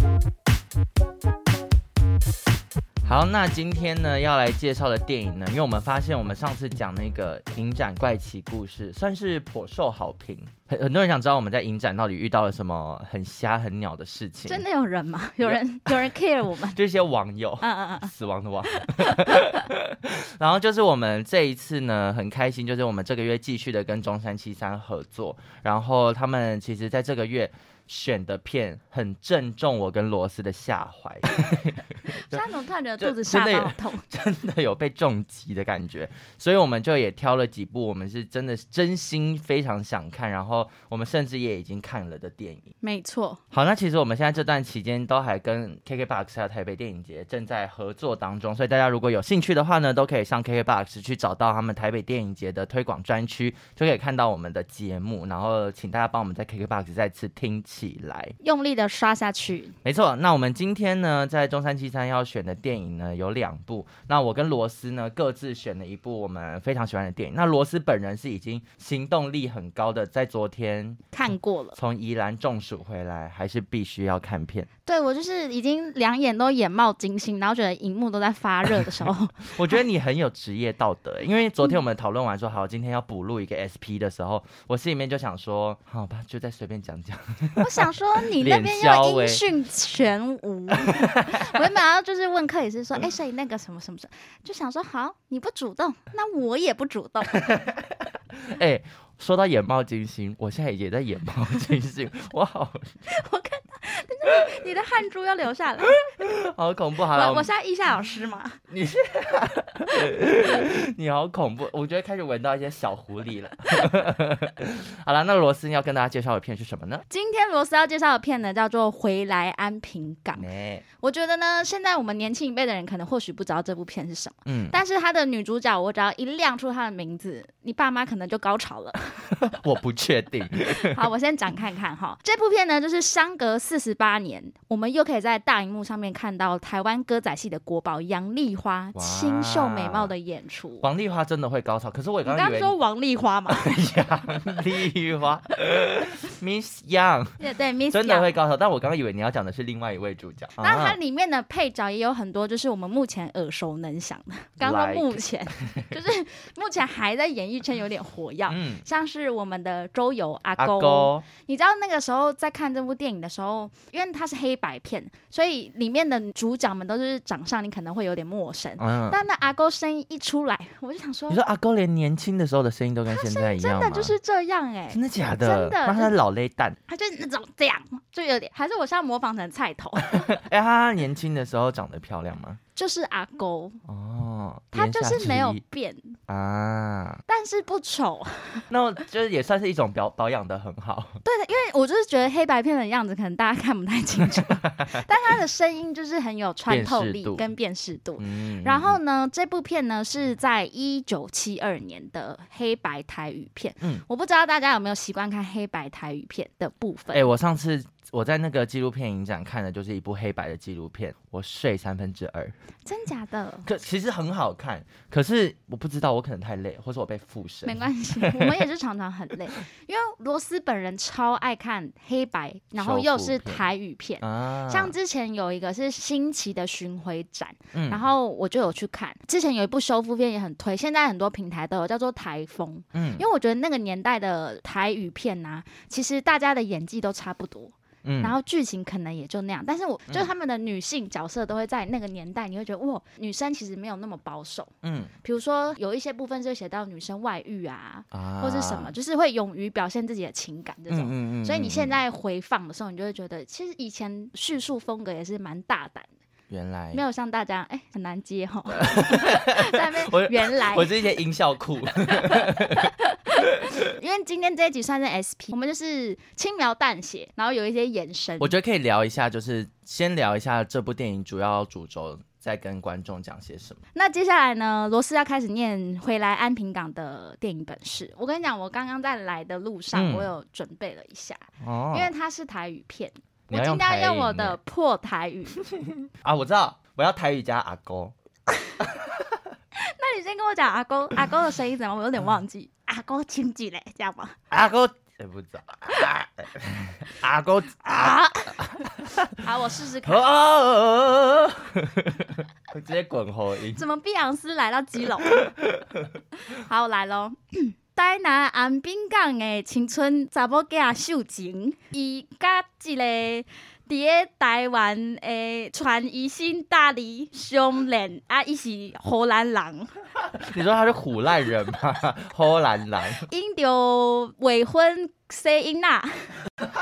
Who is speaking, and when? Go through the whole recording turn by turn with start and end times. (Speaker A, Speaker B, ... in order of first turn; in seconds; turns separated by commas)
Speaker A: 3.0-14.6, Speaker B: 14.5-16.8, Speaker A: 15.4-32.5, Speaker B: 17.6-18.1, Speaker B: 18.7-19.7, Speaker B: 32.1-34.0, Speaker A: 33.0-42.7, Speaker B: 42.8-43.4, Speaker A: 43.5-58.4, Speaker B: 58.4-59.8, Speaker A: 59.8-71.0, Speaker B: 71.1-71.8, Speaker A: 71.8-74.7, Speaker B: 74.9-79.8, Speaker A: 78.8-89.4, Speaker B: 87.6-97.5, Speaker A: 90.8-91.6, Speaker A: 97.3-103.0, Speaker B: 103.1-106.0, Speaker A: 106.0-107.5, Speaker B: 107.1-108.6, Speaker A: 108.7-117.0, Speaker B: 117.1-120.5, Speaker A: 120.4-120.8, Speaker B: 121.0-129.4, Speaker A: 124.5-124.8, Speaker A: 129.4-131.1, Speaker B: 130.7-140.9, Speaker A: 138.9-140.1, Speaker A: 140.8-142.8, Speaker B: 142.2-143.8, Speaker A: 143.5-151.0, Speaker B: 147.4-148.3, Speaker B: 150.6-171.4, Speaker A: 154.6-155.9, Speaker A: 158.5-158.8, Speaker A: 160.6-161.2, Speaker A: 168.8-169.2, Speaker A: 171.3-174.2, Speaker B: 173.1-176.1, Speaker A: 174.9-176.8, Speaker B: 176.9-180.4, Speaker A: 180.0-182.6, Speaker B: 182.8-183.8, Speaker A: 183.9-185.6, Speaker B: 184.7-186.2, Speaker A: 186.3-187.2, Speaker B: 187.3-188.7, Speaker A: 188.7-191.2, Speaker B: 191.2-207.3, Speaker A: 196.7-197.4, Speaker A: 198.2-199.0, Speaker A: 207.1-212.5, Speaker B: 212.8-213.7, Speaker A: 213.7-218.7, Speaker B: 217.7-244.7, Speaker A: 222.8-223.6, Speaker A: 224.2-224.9, Speaker A: 227.7-228.1, Speaker A: 232.9-233.2, Speaker A: 238.0-238.4, Speaker A: 244.8-245.1, Speaker B: 245.2-256.1, Speaker A: 248.1-248.9, Speaker A: 250.9-252.0, Speaker A: 256.5-257.0, Speaker B: 256.9-261.1, Speaker A: 258.7-262.9, Speaker B: 262.1-268.5, Speaker A: 268.4-273.8, Speaker B: 273.9-285.6, Speaker A: 279.9-280.3, Speaker A: 281.6-282.1, Speaker A: 283.5-284.6, Speaker A: 285.6-288.1, Speaker A: 288.8-289.4, Speaker B: 289.8-294.4, Speaker A: 294.5-299.4, Speaker B: 297.8-298.7, Speaker B: 299.4-300.2, Speaker A: 300.0-303.8, Speaker B: 303.8-305.5, Speaker A: 305.2-306.2, Speaker B: 306.4-319.9, Speaker A: 320.3-323.3, Speaker B: 323.2-326.4